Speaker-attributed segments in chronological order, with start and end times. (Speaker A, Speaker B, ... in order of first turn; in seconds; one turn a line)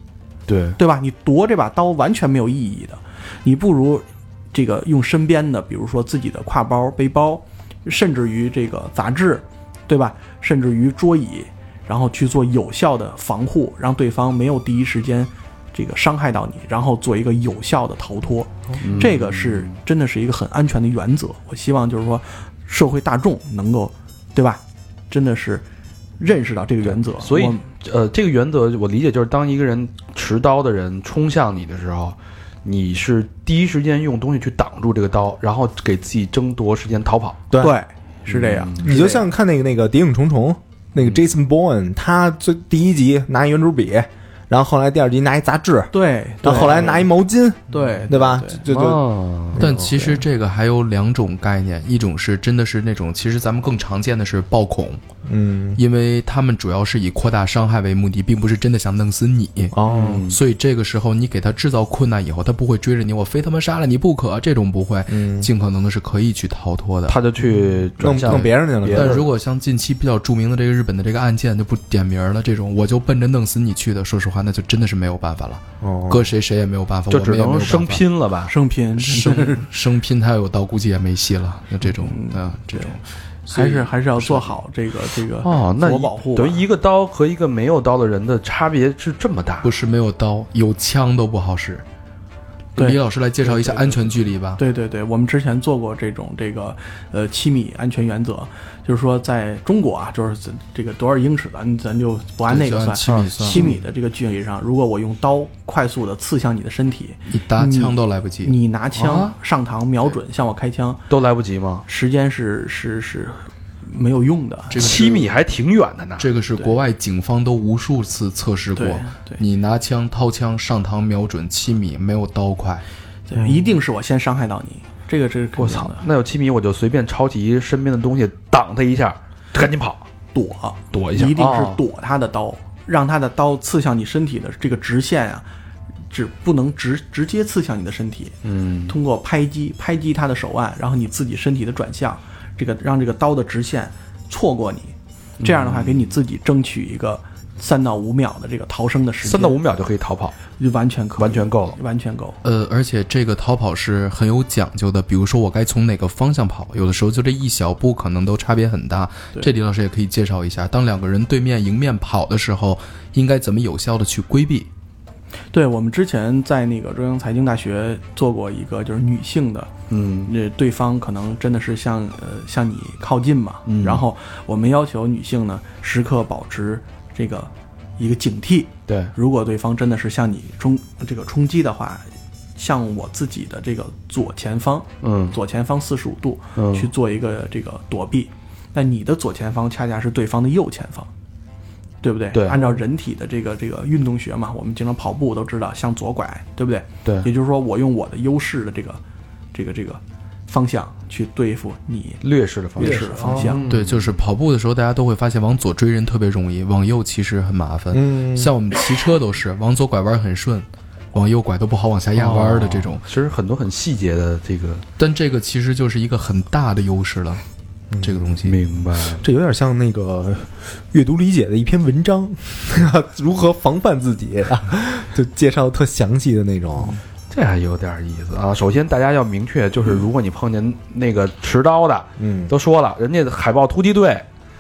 Speaker A: 0.5-0.8
Speaker B: 0.8-25.6
Speaker A: 18.8-19.7
Speaker B: 26.2-27.6
Speaker A: 26.8-37.4
Speaker C: 37.5-37.8
Speaker B: 37.6-39.2
Speaker A: 38.3-38.9
Speaker C: 38.8-50.2
Speaker B: 45.9-47.1
Speaker B: 47.7-48.6
Speaker A: 48.7-49.6
Speaker D: 49.6-55.0
Speaker C: 55.2-55.8
Speaker D: 55.8-59.8
Speaker C: 59.7-60.2
Speaker A: 59.8-60.4
Speaker D: 60.3-67.2
Speaker C: 65.1-65.5
Speaker A: 67.1-69.3
Speaker C: 67.6-69.3
Speaker D: 68.1-78.0
Speaker C: 75.8-76.3
Speaker A: 77.1-78.5
Speaker B: 78.5-79.7
Speaker D: 79.0-84.5
Speaker B: 81.8-83.0
Speaker B: 83.5-86.7
Speaker A: 85.4-89.8
Speaker D: 89.6-91.8
Speaker D: 92.8-94.6
Speaker B: 92.8-111.0
Speaker D: 102.5-103.8
Speaker A: 103.0-103.7
Speaker D: 107.3-108.6
Speaker A: 108.9-109.3
Speaker A: 111.1-111.8
Speaker B: 111.8-115.0
Speaker D: 114.7-115.3
Speaker A: 114.7-116.3
Speaker D: 116.2-122.8
Speaker B: 118.8-119.4
Speaker B: 123.3-126.0
Speaker A: 125.6-130.1
Speaker B: 130.3-135.4
Speaker A: 130.9-131.8
Speaker B: 136.1-138.3
Speaker A: 138.4-138.9
Speaker B: 138.9-149.6
Speaker A: 145.4-146.1
Speaker A: 149.2-150.4
Speaker B: 150.6-152.4
Speaker A: 151.2-151.8
Speaker D: 152.4-164.7
Speaker B: 165.5-169.7
Speaker A: 169.9-170.3
Speaker B: 170.3-191.1
Speaker A: 173.7-174.0
Speaker A: 178.9-179.1
Speaker A: 185.0-185.3
Speaker A: 186.6-186.9
Speaker B: 192.0-199.0
Speaker A: 192.3-192.6
Speaker B: 199.5-202.2
Speaker A: 202.2-204.2
Speaker B: 202.8-203.6
Speaker C: 202.8-203.6
Speaker D: 203.7-213.0
Speaker C: 207.9-208.5
Speaker A: 212.2-214.8
Speaker D: 215.0-217.4
Speaker C: 217.9-218.4
Speaker D: 218.0-218.6
Speaker A: 218.4-219.2
Speaker C: 219.2-227.0
Speaker A: 226.9-234.2
Speaker C: 232.2-232.5